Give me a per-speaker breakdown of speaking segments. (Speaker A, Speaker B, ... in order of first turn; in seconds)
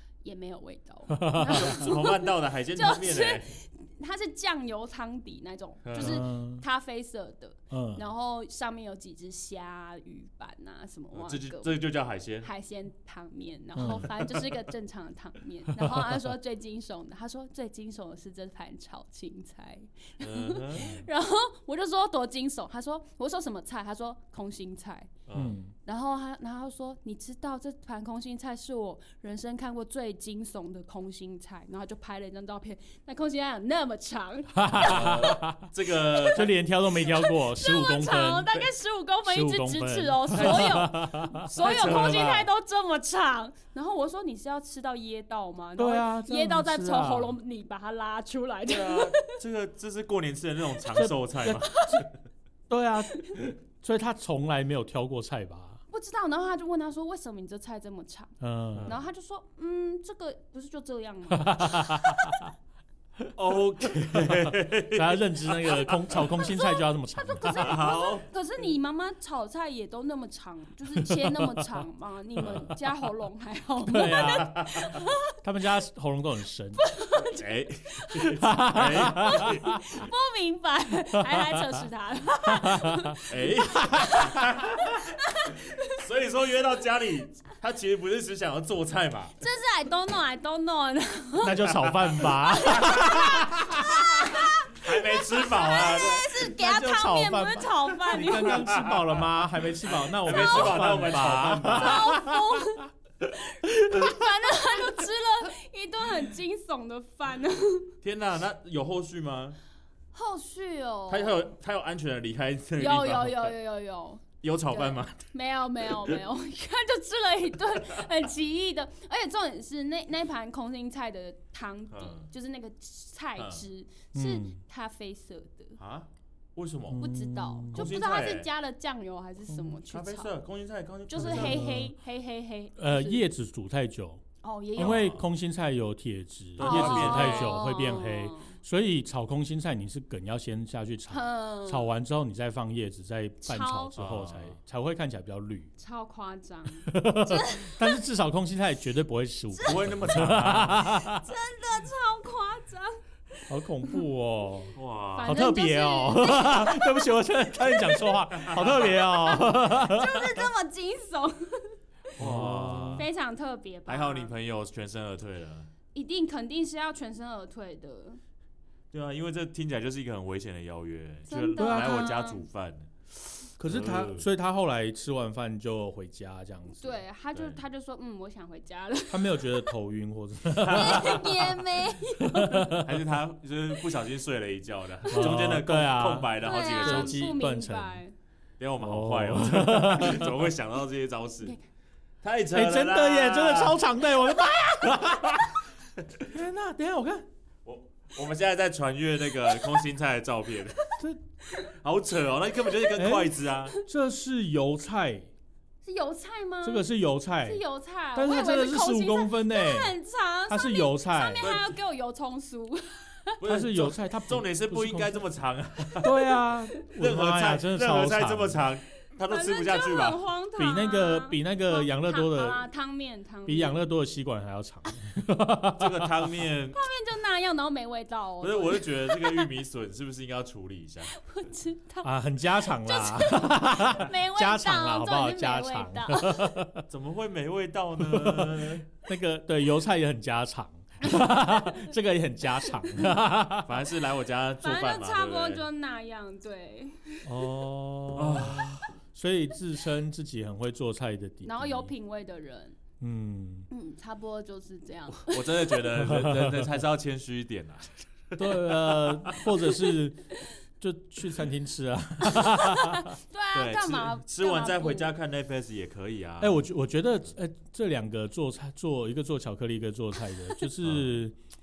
Speaker A: 0.2-11.8, 12.4-25.1, 25.8-35.4, 36.0-49.4, 51.6-52.0, 55.9-62.4, 66.2-75.3, 76.8-78.4, 79.0-86.0, 89.4-98.7, 100.3-100.8, 101.6-107.9, 110.1-111.4, 112.8-125.8, 127.0-130.3, 131.1-133.3, 134.4-135.1, 136.6-138.5, 141.1-141.9, 143.4-144.0, 145.8-148.0, 149.5-149.8, 150.9-154.0, 155.1-161.8, 162.9-164.3, 165.9-168.2, 171.3-172.4, 176.8-179.7, 180.6-182.8, 186.4-188.1, 205.8-206.9, 207.4-213.4, 219.3-223.8, 226.7-229.5, 231.1-236.6, 244.6-247.4, 251.4-252.8, 253.7-255.8, 262.3-265.1
Speaker B: 1.1-1.7, 5.9-6.6, 7.7-8.0, 13.8-14.1, 15.8-16.2, 25.3-25.7, 34.5-35.6, 36.3-38.5, 39.2-41.5, 45.8-47.4, 51.0-52.0, 52.7-55.8, 58.4-58.9, 61.3-62.5, 64.1-67.8, 71.0-71.6, 73.8-76.8, 78.3-79.8, 81.2-81.8, 82.5-83.2, 83.7-84.3, 91.4-94.3, 96.4-102.8, 124.1-124.6, 126.9-127.9, 129.5-129.7, 131.2-131.9, 132.8-134.2, 134.8-145.7, 146.8-151.2, 153.5-160.5, 162.2-163.1, 171.6-172.1, 173.6-177.0, 179.1-181.4, 182.2-182.9, 185.1-188.0, 188.8-190.3, 192.5-195.6, 196.2-197.2, 202.9-205.3, 206.6-207.6, 208.1-209.9, 210.5-211.4, 213.4-215.2, 216.0-218.6, 220.6-222.6, 223.4-226.1, 232.0-236.8, 238.0-243.8, 247.2-251.9, 253.0-253.7, 256.0-256.7, 258.4-260.3, 260.8-263.1, 266.4-271.4
Speaker C: 1.4-3.5, 5.8-6.2, 11.1-12.5, 13.8-14.5, 20.2-21.0, 25.3-25.6, 34.8-36.5, 40.3-40.9, 41.5-42.5, 48.6-51.8, 63.4-66.2, 67.5-68.2, 74.4-74.8, 77.1-79.8, 83.3-85.2, 85.8-89.4, 92.7-93.0, 94.7-96.5, 98.5-99.2, 99.8-102.2, 108.0-109.6, 111.1-113.5, 114.4-115.2, 121.9-122.3, 123.4-123.7, 125.8-127.0, 127.7-128.5, 129.9-131.7, 134.8-135.3, 136.6-137.6, 144.0-144.6, 149.6-150.9, 154.8-155.4, 162.2-163.1, 163.9-165.7, 168.9-172.9, 173.7-174.3, 177.3-177.6, 180.5-181.6, 182.8-187.2, 188.6-191.6, 192.2-193.8, 197.6-200.9, 201.5-203.8, 211.4-211.7, 213.4-216.2, 217.0-220.2, 225.8-226.8, 228.4-231.1, 236.9-238.8, 243.7-245.6, 248.1-248.8, 255.1-259.4, 263.5-266.6, 270.8-271.1